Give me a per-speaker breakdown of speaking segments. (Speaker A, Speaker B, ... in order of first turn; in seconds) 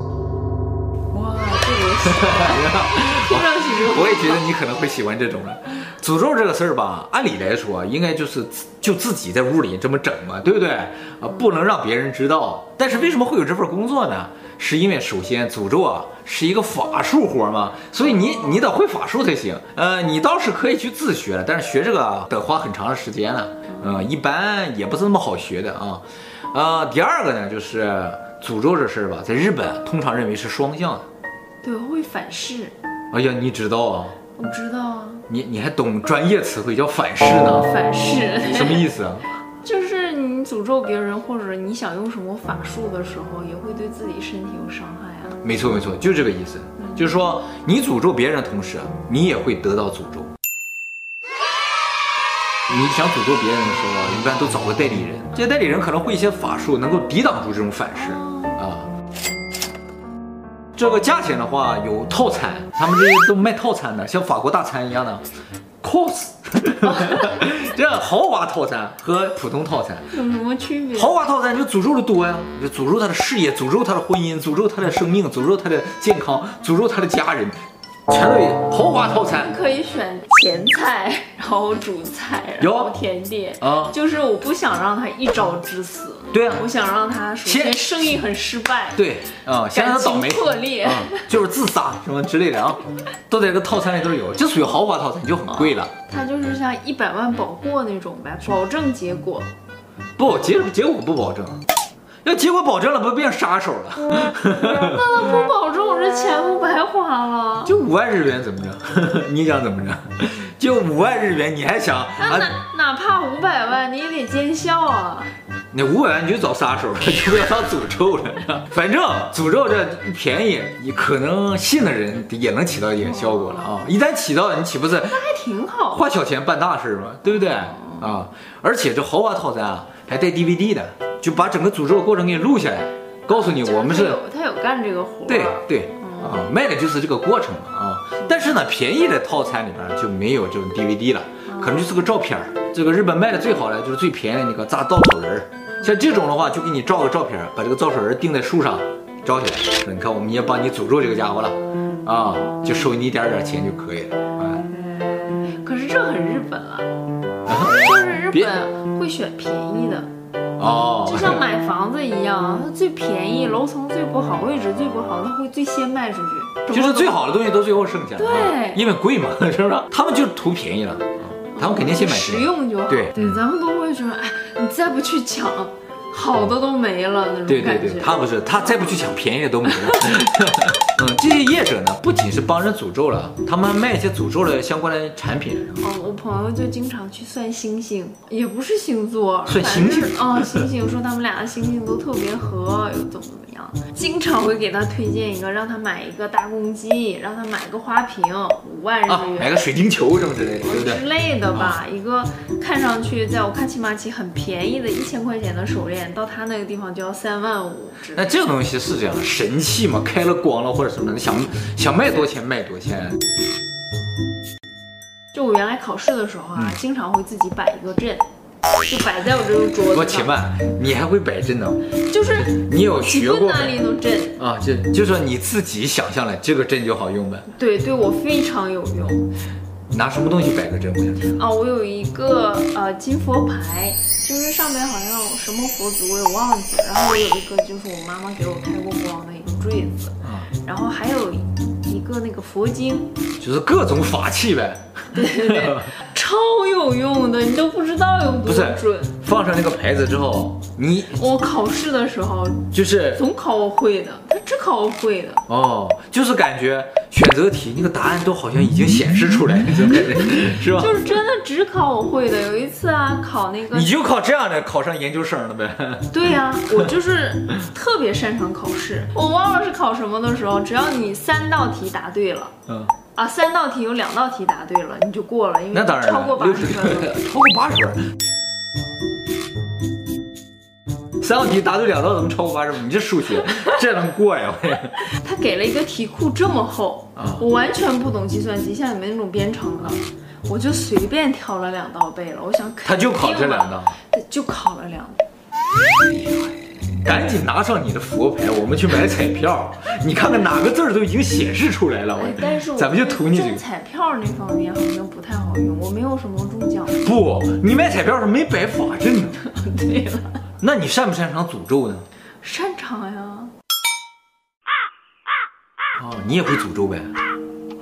Speaker A: 1.1-4.5, 31.6-32.8, 34.4-35.3, 37.5-38.9, 39.6-45.4, 58.0-58.6, 70.1-71.2, 79.3-89.0, 89.7-91.3, 95.5-99.5, 104.6-107.8, 112.2-115.3, 123.0-123.8, 125.1-126.1, 127.3-128.1, 133.3-136.5, 141.5-141.8, 154.6-156.9, 157.6-160.1, 161.0-167.2, 168.2-168.8, 171.6-179.0, 179.9-180.1, 185.8-199.6, 200.6-208.4, 215.3-218.3, 218.8-220.4, 222.0-224.4, 227.5-229.3, 231.4-243.2, 245.1-249.2, 251.1-255.4, 260.3-263.9, 266.1-272.5, 273.2-277.2, 285.1-295.2, 302.1-307.1, 309.4-310.4, 312.4-313.5
Speaker B: 2.0-31.1, 33.1-34.2, 35.3-37.7, 38.4-39.3, 45.4-50.3, 52.7-58.9, 60.8-65.2, 65.8-70.1, 71.0-79.5, 82.6-83.0, 83.6-84.0, 86.3-86.7, 87.5-88.0, 89.0-95.9, 100.2-101.6, 102.2-105.0, 107.7-112.5, 115.7-125.2, 125.9-134.2, 135.3-154.7, 157.5-158.5, 160.6-161.4, 166.7-173.4, 177.5-185.8, 189.5-190.6, 199.1-201.8, 208.1-213.2, 219.9-221.9, 222.5-223.8, 224.4-227.5, 229.9-231.4, 240.2-240.5, 243.4-245.9, 248.4-251.2, 252.7-253.2, 255.5-260.9, 263.7-266.1, 272.7-272.9, 275.7-278.0, 281.2-285.0, 287.2-287.4, 292.8-294.0, 296.9-303.6, 307.0-309.4, 310.6-312.1, 316.0-317.1